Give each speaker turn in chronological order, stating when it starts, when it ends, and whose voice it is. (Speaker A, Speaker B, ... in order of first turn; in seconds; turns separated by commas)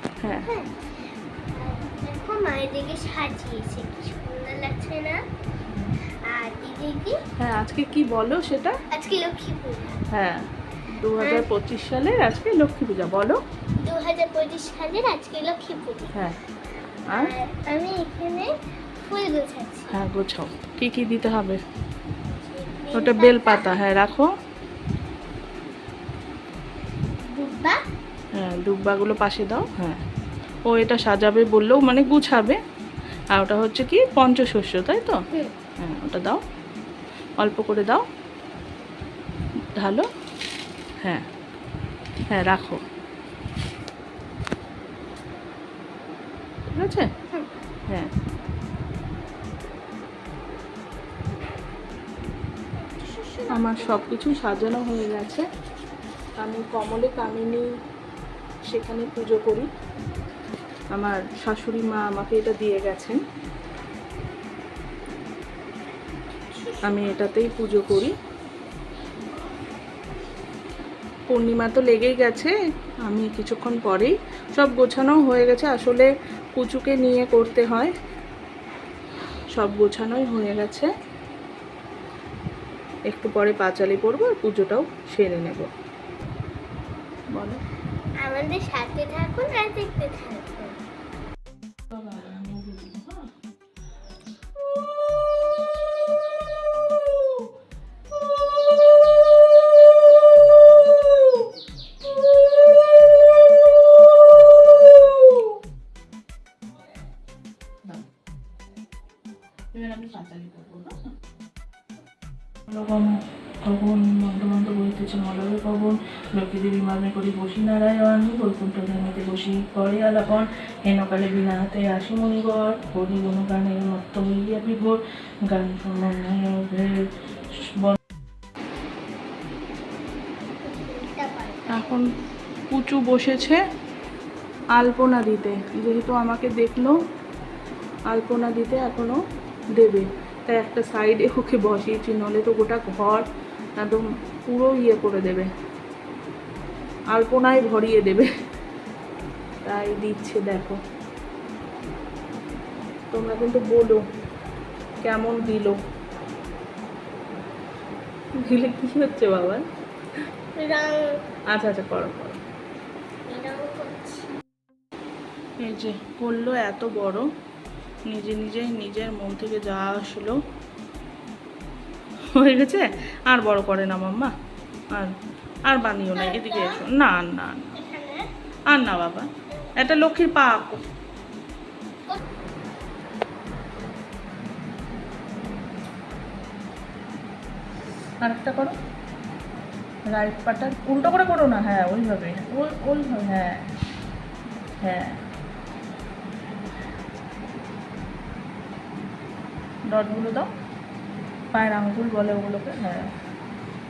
Speaker A: 0.4-0.7, Speaker A: 1.5-5.2, Speaker A: 6.3-7.2, Speaker B: 7.4-8.7, Speaker A: 8.9-10.0, Speaker B: 10.1-10.4, Speaker B: 11.0-13.4, Speaker A: 11.2-11.5, Speaker A: 13.8-16.2, Speaker A: 17.1-18.5, Speaker A: 19.0-20.0, Speaker B: 19.9-21.6, Speaker A: 22.3-23.9, Speaker B: 22.9-24.3, Speaker A: 27.2-27.8, Speaker B: 28.4-30.0, Speaker B: 30.7-32.6, Speaker B: 33.3-35.2, Speaker B: 35.8-36.4, Speaker B: 37.4-38.0, Speaker B: 39.8-40.0, Speaker B: 42.3-42.8, Speaker B: 46.7-47.1, Speaker A: 52.9-54.3, Speaker B: 53.5-55.5, Speaker B: 56.4-57.7, Speaker B: 58.7-59.7, Speaker B: 60.9-63.2, Speaker B: 66.8-68.1, Speaker B: 71.3-72.5, Speaker B: 73.1-77.9, Speaker B: 79.5-80.9, Speaker B: 83.1-85.7, Speaker B: 87.3-87.6, Speaker A: 88.2-90.7, Speaker B: 91.9-93.3, Speaker B: 109.7-111.0, Speaker B: 112.7-113.1, Speaker B: 113.6-125.0, Speaker B: 125.5-127.0, Speaker B: 127.6-128.0, Speaker A: 130.7-132.0, Speaker B: 131.7-132.0, Speaker B: 132.7-133.6, Speaker B: 134.7-137.0, Speaker B: 138.1-139.2, Speaker B: 139.8-143.2, Speaker B: 143.8-145.5, Speaker B: 147.1-148.3, Speaker B: 149.7-150.8, Speaker B: 153.1-154.0, Speaker B: 155.0-155.8, Speaker B: 158.4-159.6, Speaker A: 160.6-161.2, Speaker B: 161.5-162.4, Speaker A: 163.3-164.3, Speaker B: 165.6-167.2, Speaker B: 168.1-170.4, Speaker B: 172.3-174.3, Speaker B: 175.7-177.8, Speaker A: 176.1-176.8, Speaker A: 177.8-178.3, Speaker B: 178.7-180.8, Speaker B: 188.2-188.8, Speaker B: 190.1-193.6, Speaker B: 194.8-195.2, Speaker B: 199.9-200.5, Speaker B: 201.5-203.1